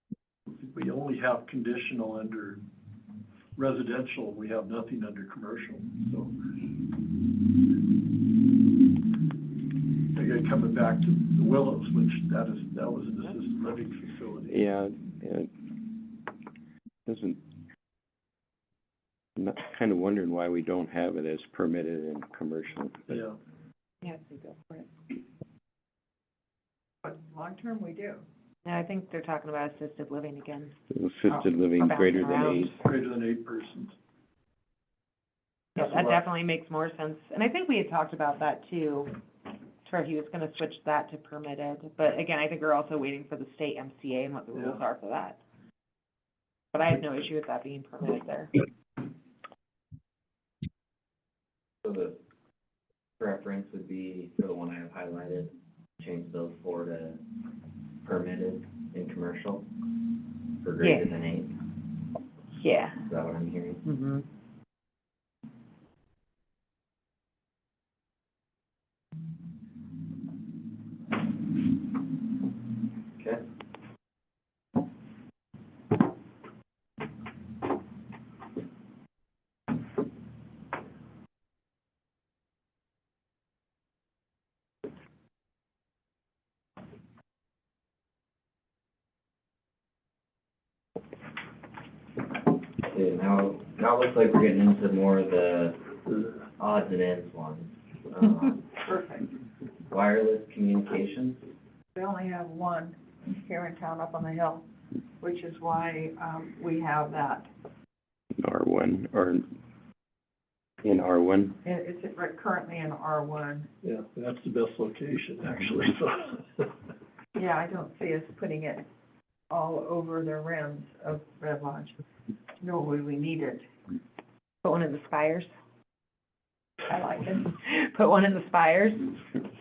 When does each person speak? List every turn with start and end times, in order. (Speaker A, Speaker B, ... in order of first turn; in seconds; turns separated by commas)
Speaker A: 0.5-2.6, Speaker A: 3.5-6.4, Speaker A: 10.1-14.6, Speaker B: 14.5-15.5, Speaker B: 17.1-17.4, Speaker B: 19.4-23.1, Speaker A: 23.1-23.4, Speaker C: 24.0-24.9, Speaker D: 27.0-28.2, Speaker C: 28.6-30.7, Speaker B: 30.9-32.8, Speaker C: 31.3-32.8, Speaker A: 32.8-33.9, Speaker A: 35.7-36.2, Speaker C: 35.8-39.1, Speaker C: 39.8-45.4, Speaker A: 44.5-44.8, Speaker C: 46.7-48.5, Speaker E: 51.8-52.2, Speaker E: 53.2-57.2, Speaker E: 58.0-59.7, Speaker E: 60.6-61.5, Speaker C: 60.8-61.1, Speaker C: 62.6-63.0, Speaker E: 63.0-63.8, Speaker C: 63.9-64.2, Speaker E: 92.8-95.8, Speaker E: 96.6-98.8, Speaker D: 98.8-99.3, Speaker E: 99.9-101.5, Speaker D: 101.9-104.7, Speaker D: 105.2-107.5, Speaker B: 108.4-109.4, Speaker B: 110.8-111.6, Speaker D: 111.6-113.7, Speaker A: 113.8-116.7, Speaker D: 117.3-118.9, Speaker D: 119.5-122.0, Speaker D: 122.6-123.7, Speaker C: 124.6-125.5, Speaker D: 126.9-127.5, Speaker C: 127.5-129.2